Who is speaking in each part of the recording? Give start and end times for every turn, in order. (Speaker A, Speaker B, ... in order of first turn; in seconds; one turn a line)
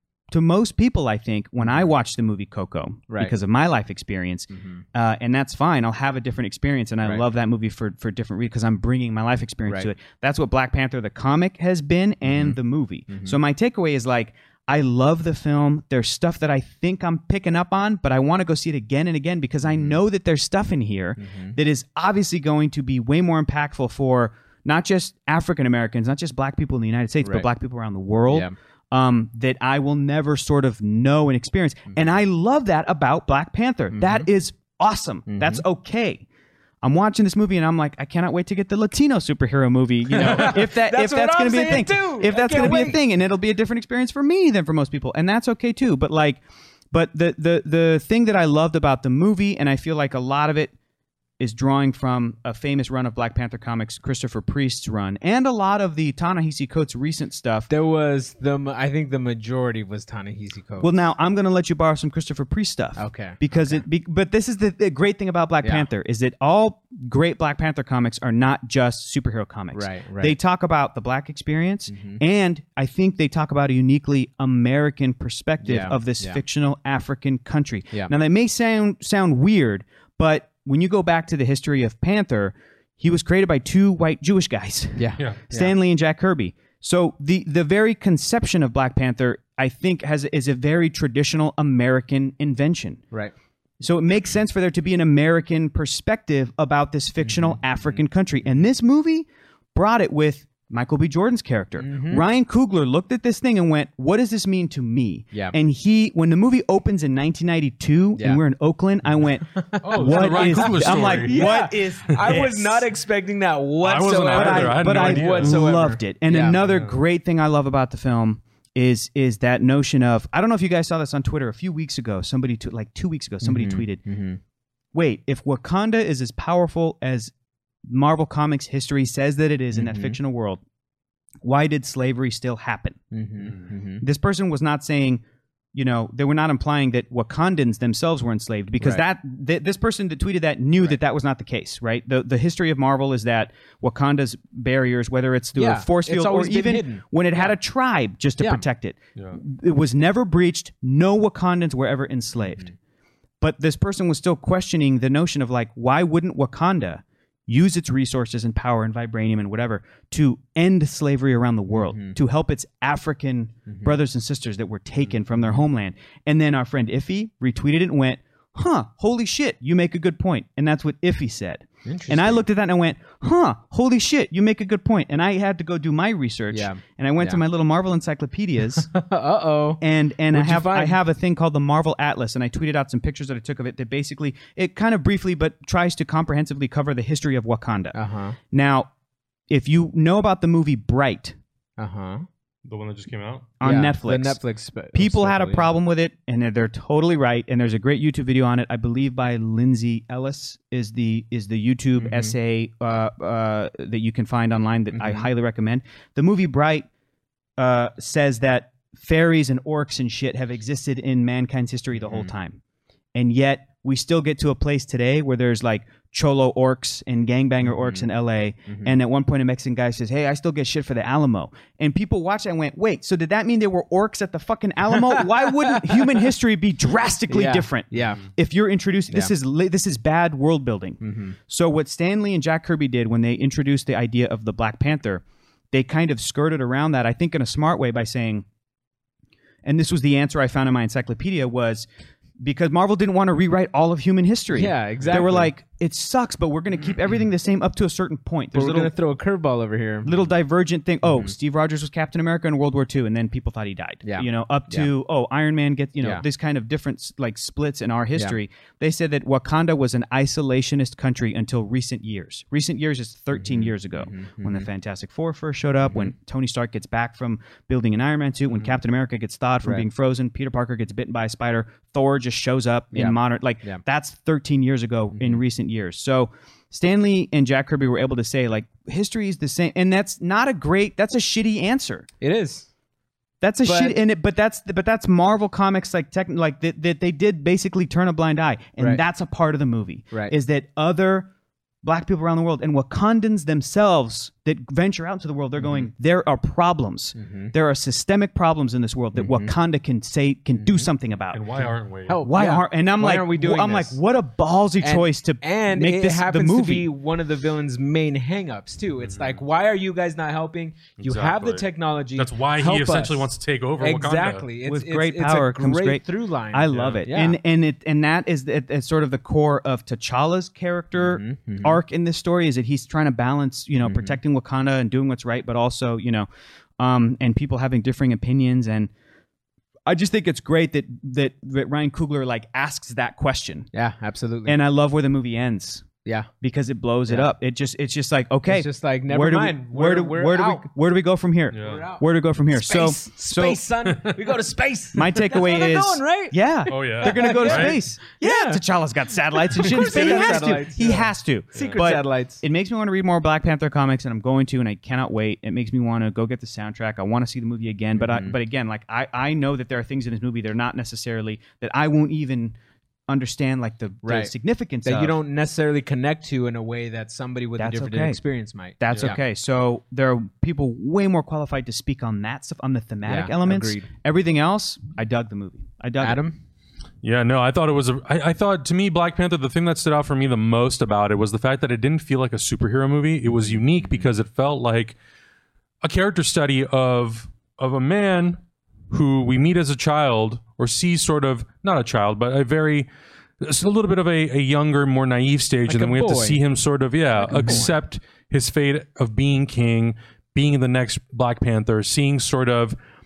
Speaker A: 0.3-36.2
Speaker B: 1.6-1.9
Speaker B: 3.1-3.3
Speaker B: 4.5-4.8
Speaker B: 12.2-12.6
Speaker B: 13.1-13.4
Speaker B: 19.6-20.0
Speaker B: 21.2-21.6
Speaker B: 27.2-27.5
Speaker B: 28.3-28.5
Speaker B: 33.9-34.3
Speaker B: 35.3-35.6
Speaker A: 36.8-46.4
Speaker B: 40.1-43.0
Speaker A: 46.9-50.7
Speaker A: 51.4-57.7
Speaker B: 57.7-61.0
Speaker A: 60.8-93.0
Speaker B: 63.0-63.8
Speaker B: 65.6-65.9
Speaker B: 69.7-70.4
Speaker B: 71.9-72.2
Speaker B: 75.6-76.4
Speaker B: 85.0-85.7
Speaker A: 93.8-112.9
Speaker B: 97.2-98.0
Speaker B: 101.8-102.2
Speaker B: 108.2-108.4
Speaker B: 109.5-116.6
Speaker C: 109.8-111.4
Speaker C: 113.8-115.7
Speaker A: 114.3-124.0
Speaker C: 116.6-117.0
Speaker B: 123.4-124.4
Speaker A: 124.9-127.3
Speaker A: 127.8-130.6
Speaker B: 129.7-130.2
Speaker A: 131.4-133.0
Speaker B: 133.1-134.0
Speaker A: 134.0-135.2
Speaker A: 135.7-152.7
Speaker B: 138.8-139.0
Speaker B: 145.6-147.5
Speaker A: 153.4-178.9
Speaker B: 161.7-162.2
Speaker B: 163.7-164.0
Speaker B: 165.3-165.6
Speaker B: 171.8-172.4
Speaker B: 176.5-177.4
Speaker B: 178.8-181.0
Speaker A: 179.8-188.9
Speaker B: 187.9-188.4
Speaker A: 189.5-191.3
Speaker B: 191.8-192.3
Speaker C: 192.6-193.5
Speaker A: 193.6-194.4
Speaker B: 193.6-195.7
Speaker A: 194.9-206.9
Speaker B: 201.9-202.3
Speaker B: 204.9-205.3
Speaker A: 207.6-212.6
Speaker B: 212.0-212.3
Speaker A: 213.1-238.4
Speaker B: 217.6-218.0
Speaker B: 218.7-218.9
Speaker B: 224.9-226.3
Speaker B: 227.3-228.2
Speaker B: 231.0-231.3
Speaker A: 239.6-241.9
Speaker A: 242.4-248.9
Speaker B: 244.5-245.5
Speaker B: 248.5-250.2
Speaker A: 250.0-282.1
Speaker B: 251.1-251.3
Speaker B: 254.0-254.9
Speaker B: 263.3-264.7
Speaker B: 265.9-266.1
Speaker B: 272.9-273.8
Speaker B: 275.1-275.4
Speaker B: 282.2-282.7
Speaker A: 283.4-291.3
Speaker B: 283.6-284.0
Speaker B: 288.8-289.0
Speaker A: 291.8-301.4
Speaker B: 295.6-295.9
Speaker B: 297.1-297.5
Speaker B: 299.1-299.5
Speaker B: 300.5-300.9
Speaker C: 301.3-302.2
Speaker B: 302.1-304.0
Speaker A: 302.2-306.9
Speaker B: 304.8-313.3
Speaker C: 309.1-309.4
Speaker C: 311.0-311.6
Speaker C: 312.2-314.4
Speaker B: 313.8-317.4
Speaker A: 314.6-326.3
Speaker B: 320.9-321.8
Speaker B: 323.8-324.2
Speaker A: 326.8-328.9
Speaker A: 329.9-333.7
Speaker B: 333.7-334.6
Speaker A: 334.4-335.9
Speaker A: 336.4-343.6
Speaker B: 338.5-340.7
Speaker C: 341.5-341.8
Speaker B: 341.6-348.6
Speaker A: 344.9-362.6
Speaker C: 346.7-347.8
Speaker B: 349.5-352.4
Speaker C: 351.5-351.8
Speaker B: 357.9-358.4
Speaker A: 363.1-365.2
Speaker B: 364.0-364.3
Speaker B: 364.8-369.2
Speaker A: 367.6-368.2
Speaker A: 368.8-376.2
Speaker B: 373.0-373.9
Speaker B: 376.0-376.4
Speaker C: 377.0-384.9
Speaker B: 383.8-384.1
Speaker C: 385.8-392.9
Speaker C: 393.4-402.8
Speaker B: 395.7-396.4
Speaker B: 397.1-397.8
Speaker A: 397.3-397.6